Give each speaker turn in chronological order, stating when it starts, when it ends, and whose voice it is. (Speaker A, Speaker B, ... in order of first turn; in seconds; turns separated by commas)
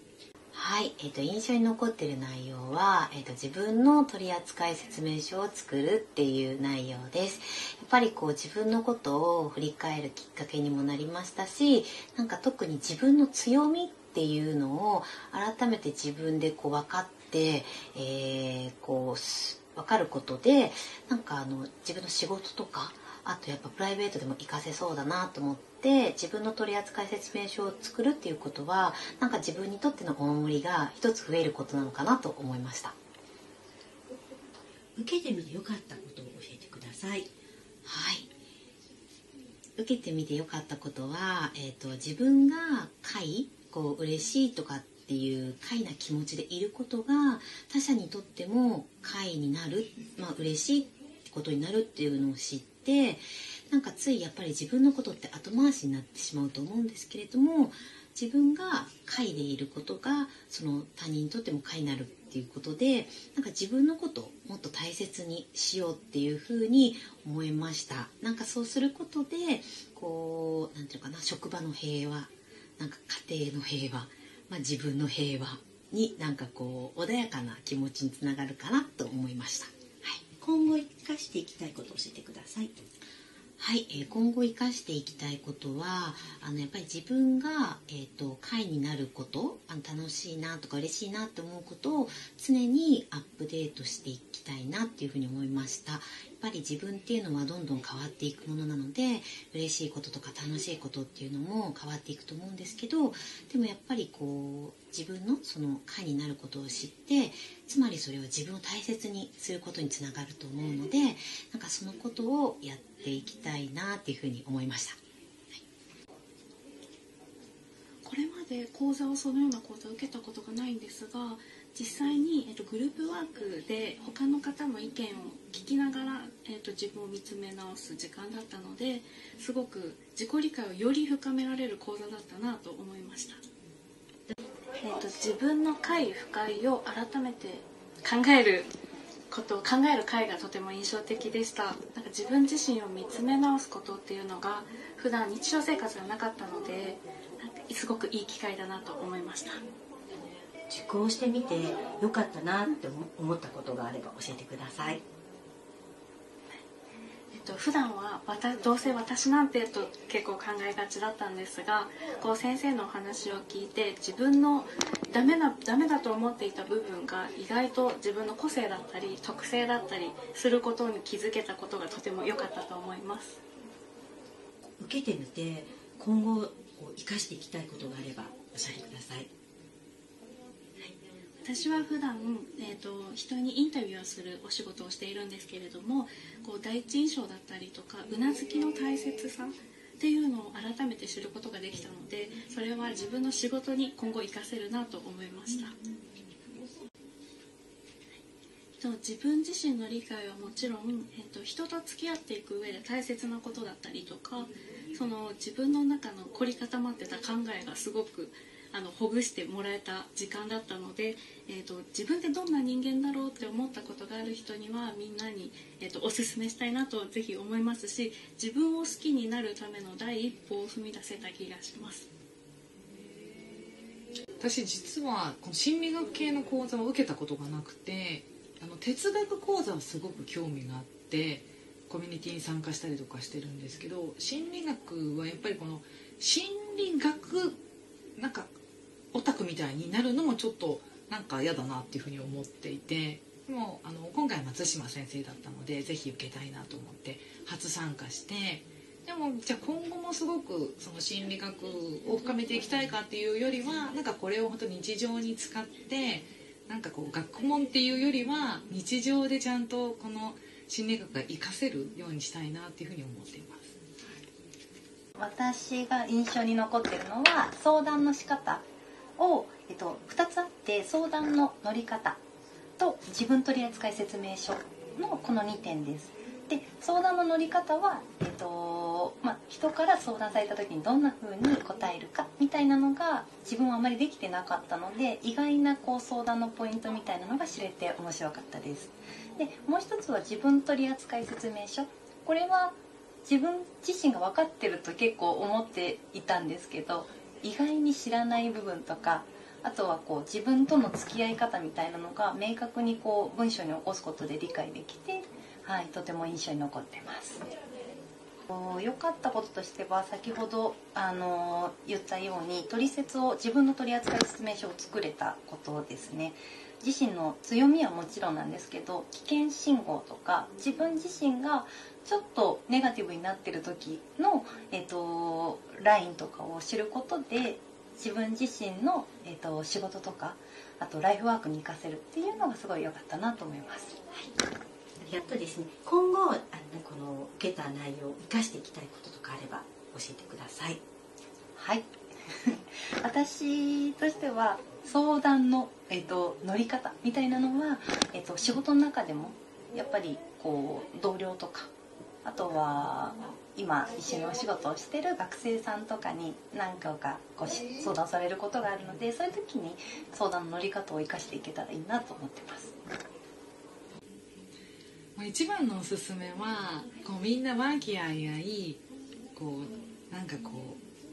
Speaker A: 0.5-33.0, Speaker B: 35.0-37.3, Speaker A: 37.9-38.3, Speaker A: 39.8-80.2, Speaker B: 80.4-82.8, Speaker A: 83.6-115.0, Speaker C: 118.0-133.4, Speaker C: 134.8-138.7, Speaker C: 139.3-149.6, Speaker B: 150.7-155.0, Speaker C: 157.3-173.4, Speaker B: 174.8-179.3, Speaker C: 181.4-195.8, Speaker C: 198.8-222.1, Speaker D: 224.4-237.6, Speaker D: 238.2-238.5, Speaker D: 239.1-263.8, Speaker E: 265.2-268.6, Speaker E: 269.2-272.2, Speaker E: 272.8-307.4, Speaker E: 308.5-334.0, Speaker B: 335.0-340.8, Speaker E: 341.6-351.7, Speaker E: 352.2-362.7, Speaker D: 365.2-368.8, Speaker D: 369.4-370.8